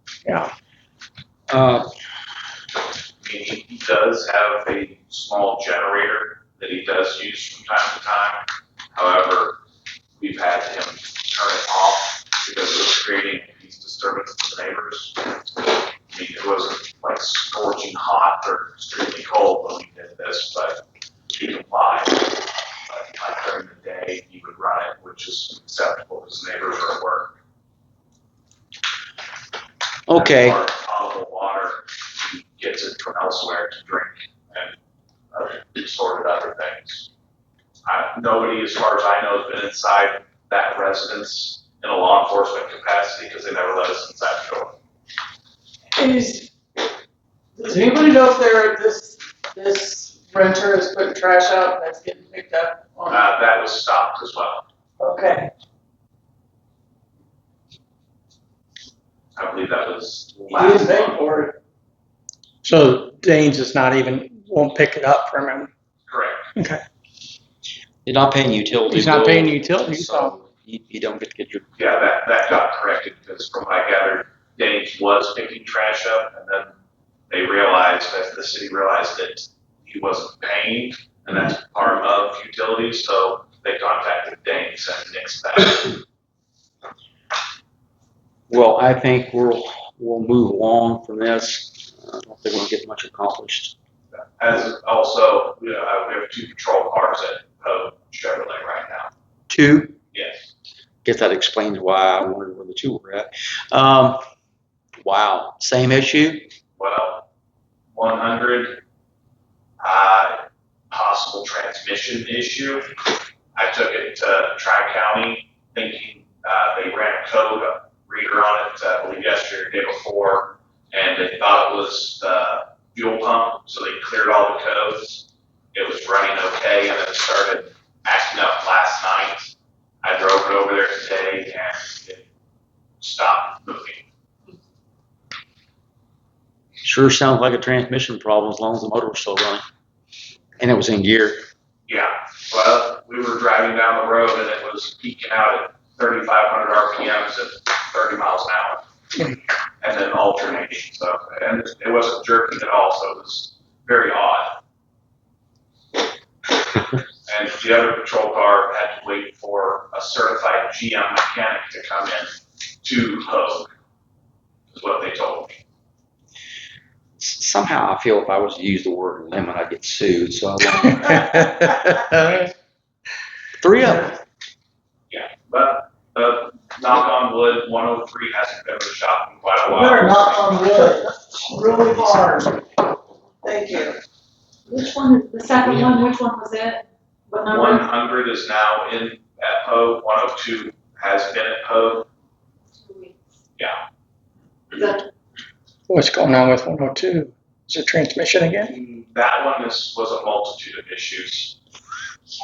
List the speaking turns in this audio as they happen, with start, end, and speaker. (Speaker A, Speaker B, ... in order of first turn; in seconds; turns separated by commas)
Speaker A: 0.2-0.5, Speaker B: 1.5-1.9, Speaker C: 3.2-9.6, Speaker C: 10.2-20.8, Speaker C: 21.3-27.3, Speaker B: 30.1-30.6, Speaker C: 30.1-34.8, Speaker C: 35.3-37.1, Speaker C: 37.8-44.8, Speaker D: 46.0-46.5, Speaker D: 47.5-53.2, Speaker C: 53.1-54.6, Speaker D: 55.0-55.5, Speaker C: 59.4-61.2, Speaker D: 60.5-61.6, Speaker A: 62.6-65.7, Speaker C: 66.1-66.5, Speaker A: 66.6-66.8, Speaker B: 68.0-71.6, Speaker A: 68.9-70.3, Speaker C: 71.8-76.7, Speaker C: 77.3-86.0, Speaker B: 88.5-93.7, Speaker C: 94.1-99.1, Speaker B: 99.5-100.0, Speaker C: 100.1-100.5, Speaker B: 101.0-104.2, Speaker B: 105.0-106.5, Speaker C: 106.8-107.2, Speaker C: 107.9-108.8, Speaker C: 109.8-112.9, Speaker C: 113.5-129.5, Speaker C: 130.0-132.2, Speaker C: 133.0-134.0, Speaker B: 136.8-139.6, Speaker B: 140.6-141.4, Speaker C: 141.9-148.8, Speaker C: 149.8-154.6, Speaker C: 157.3-163.7, Speaker C: 164.7-165.6, Speaker B: 167.2-171.5, Speaker C: 172.1-172.6, Speaker B: 173.6-174.1, Speaker D: 173.8-174.1, Speaker C: 175.1-180.8, Speaker D: 179.7-182.6, Speaker D: 183.4-184.0, Speaker E: 184.7-187.9, Speaker C: 187.5-192.1, Speaker E: 192.8-193.2, Speaker E: 194.7-195.1, Speaker A: 195.9-198.7, Speaker C: 198.7-201.6